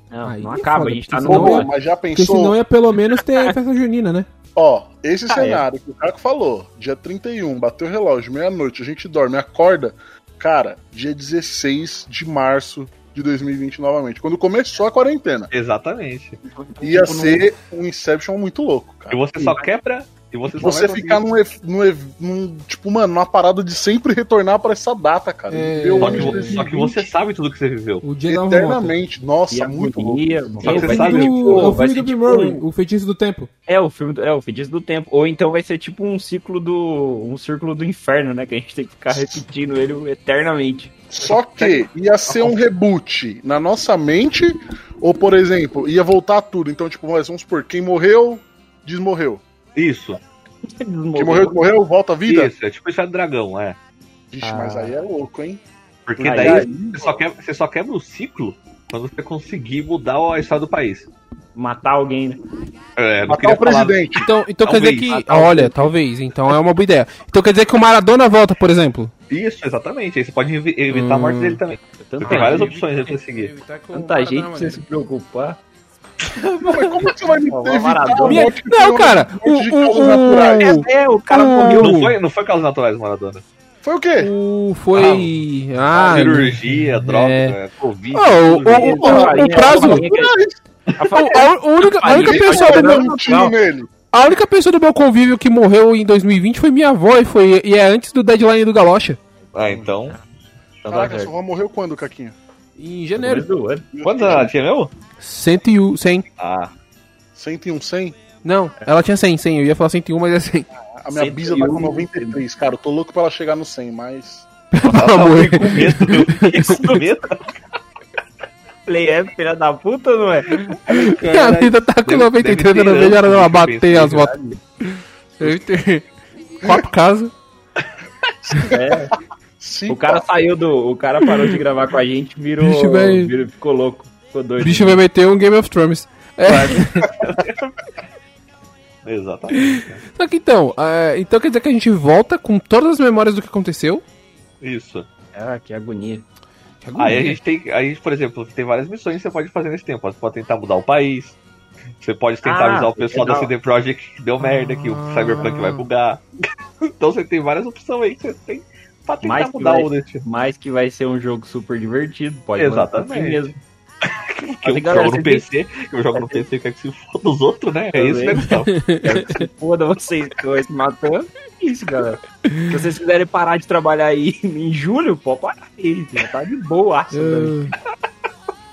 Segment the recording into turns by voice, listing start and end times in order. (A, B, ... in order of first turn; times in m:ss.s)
0:00.1-0:01.7 A
0:00.2-0:04.3 B
0:01.2-0:02.6 C
0:04.5-0:15.5 C
0:05.3-0:05.6 A
0:15.5-0:16.4 D
0:16.4-0:17.5 A
0:16.8-0:19.2 C
0:19.1-0:21.2 D
0:19.4-0:19.7 A
0:20.6-0:26.7 C
0:25.5-0:26.7 B
0:26.0-0:28.0 D
0:28.0-0:28.9 B
0:28.3-0:30.3 C
0:29.5-0:32.6 A
0:30.6-0:32.5 D
0:30.6-0:33.5 B
0:33.7-0:41.8 A
0:41.1-0:49.4 C
0:49.8-0:50.2 D
0:50.6-0:51.7 A
0:51.2-0:52.5 C
0:52.2-0:53.8 D
0:54.3-0:55.6 C
0:54.4-0:54.9 A
0:56.1-1:01.1 D
0:56.2-0:57.2 C
0:56.2-0:56.7 A
1:01.5-1:02.4 A
1:03.0-1:05.9 D
1:03.2-1:04.3 C
1:04.2-1:09.1 B
1:05.0-1:05.7 A
1:09.3-1:13.5 D
1:10.9-1:11.6 B
1:11.9-1:12.8 A
1:12.2-1:14.8 B
1:13.9-1:15.6 A
1:16.4-1:16.9 B
1:16.5-1:20.8 C
1:17.5-1:18.5 A
1:18.2-1:22.2 B
1:20.5-1:22.0 A
1:21.8-1:23.4 D
1:23.8-1:24.3 C
1:24.2-1:27.6 B
1:24.9-1:25.3 D
1:25.9-1:29.0 D
1:28.1-1:30.4 A
1:28.1-1:30.0 B
1:28.9-1:30.6 C
1:31.0-1:33.5 A
1:31.1-1:33.1 B
1:32.0-1:33.9 C
1:34.1-1:39.2 B
1:39.5-1:40.2 D
1:39.5-1:40.2 A
1:40.8-1:41.3 A
1:40.8-1:42.4 C
1:42.8-1:43.5 B
1:43.2-1:43.8 A
1:43.9-1:44.5 C
1:44.0-1:44.9 D
1:45.2-1:46.2 B
1:46.4-1:46.7 D
1:47.3-1:48.2 C
1:48.4-1:50.7 B
1:51.0-1:54.5 C
1:51.1-1:52.4 A
1:54.7-1:56.8 B
1:54.8-1:57.0 A
1:54.9-1:57.5 D
1:58.8-2:00.8 A
2:00.8-2:04.5 D
2:00.8-2:06.0 B
2:06.6-2:07.3 B
2:08.4-2:08.8 C
2:08.6-2:09.2 A
2:09.6-2:10.3 C
2:09.9-2:15.0 A
2:12.6-2:13.3 B
2:14.6-2:17.1 B
2:16.4-2:17.4 A
2:17.2-2:17.6 D
2:19.0-2:20.0 D
2:19.5-2:24.0 B
2:24.6-2:25.0 D
2:25.3-2:26.2 A
2:26.8-2:27.4 B
2:27.0-2:31.4 D
2:32.0-2:36.2 D
2:32.4-2:33.5 A
2:34.4-2:35.9 B
2:36.8-2:40.2 D
2:39.2-2:43.6 A
2:42.6-2:43.5 D
2:44.0-2:48.7 D
2:44.5-2:45.5 A
2:46.1-2:46.4 A
2:47.9-2:57.6 A
2:48.6-2:49.5 B
2:52.4-2:52.8 B
2:57.1-2:57.7 B